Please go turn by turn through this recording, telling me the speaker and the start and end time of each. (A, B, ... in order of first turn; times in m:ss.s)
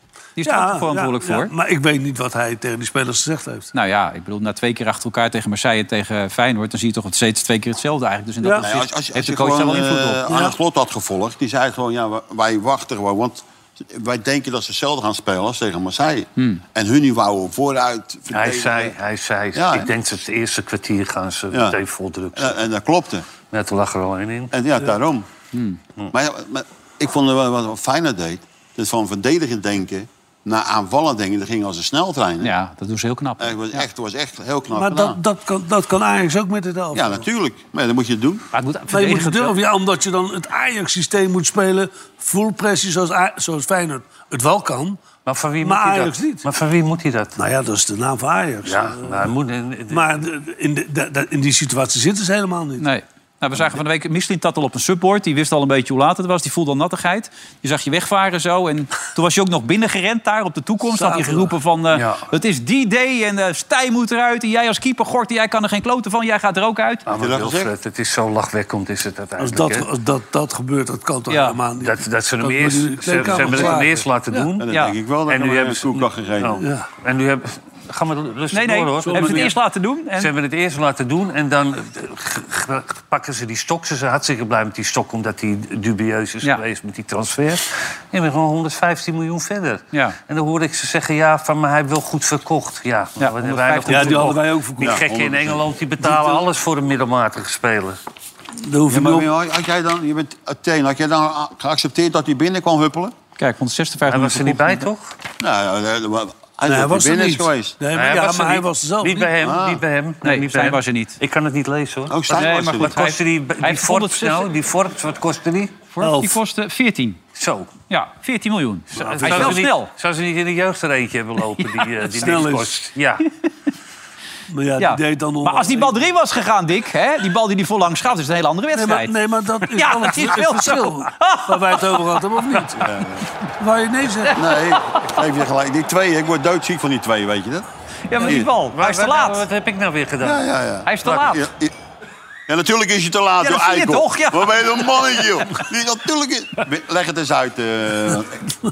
0:00.4-0:01.5 A
0:00.4-0:03.7 B
0:03.7-0:10.2 A
0:08.6-0:18.9 C
0:10.3-0:10.6 B
0:18.3-0:22.7 D
0:19.6-0:19.9 C
0:21.5-0:21.8 C
0:22.4-0:23.2 C
0:23.5-0:24.5 D
0:24.5-0:25.3 C
0:25.5-0:25.8 A
0:26.1-0:32.5 C
0:32.4-0:33.9 A
0:33.4-0:35.2 C
0:34.8-0:37.2 B
0:36.9-0:38.5 C
0:38.5-0:39.6 A
0:38.9-0:45.0 B
0:45.3-0:47.4 D
0:45.6-0:46.4 B
0:47.4-0:49.3 B
0:48.6-0:50.1 D
0:49.9-0:52.9 B
0:52.8-1:07.0 A
1:00.8-1:01.5 B
1:01.9-1:02.2 D
1:07.1-1:09.9 D
1:07.1-1:07.7 C
1:09.4-1:14.5 B
1:11.3-1:11.6 A
1:11.8-1:14.7 D
1:14.6-1:16.6 C
1:14.7-1:15.0 A
1:15.3-1:19.6 D
1:16.6-1:16.9 B
1:18.5-1:20.3 A
1:19.0-1:19.5 B
1:20.2-1:38.0 D
1:33.2-1:34.4 A
1:33.9-1:35.0 B
1:34.8-1:35.7 C
1:36.0-1:36.4 B
1:38.6-1:39.3 B
1:38.9-1:43.1 C
1:43.4-1:44.9 A
1:44.1-1:45.2 D
1:45.4-1:47.8 C
1:46.7-1:49.3 B
1:47.9-1:55.8 D
1:49.4-1:49.8 C
1:50.2-1:51.2 A
1:52.1-1:53.0 C
1:52.3-1:54.5 A
1:55.9-1:57.2 A
1:56.0-1:56.4 B
1:57.4-1:57.7 D
1:57.9-1:59.9 A
1:58.9-1:59.7 B
1:58.9-2:03.3 D
2:02.2-2:02.8 B
2:04.5-2:06.1 B
2:04.8-2:09.1 A
2:08.7-2:12.9 B
2:09.6-2:12.0 A
2:12.8-2:13.3 C
2:13.6-2:14.4 B
2:14.4-2:17.7 C
2:18.1-2:19.4 A
2:18.2-2:18.5 C
2:18.2-2:20.5 D
2:20.2-2:21.7 C
2:20.9-2:21.4 A
2:22.5-2:28.5 C
2:23.4-2:25.3 A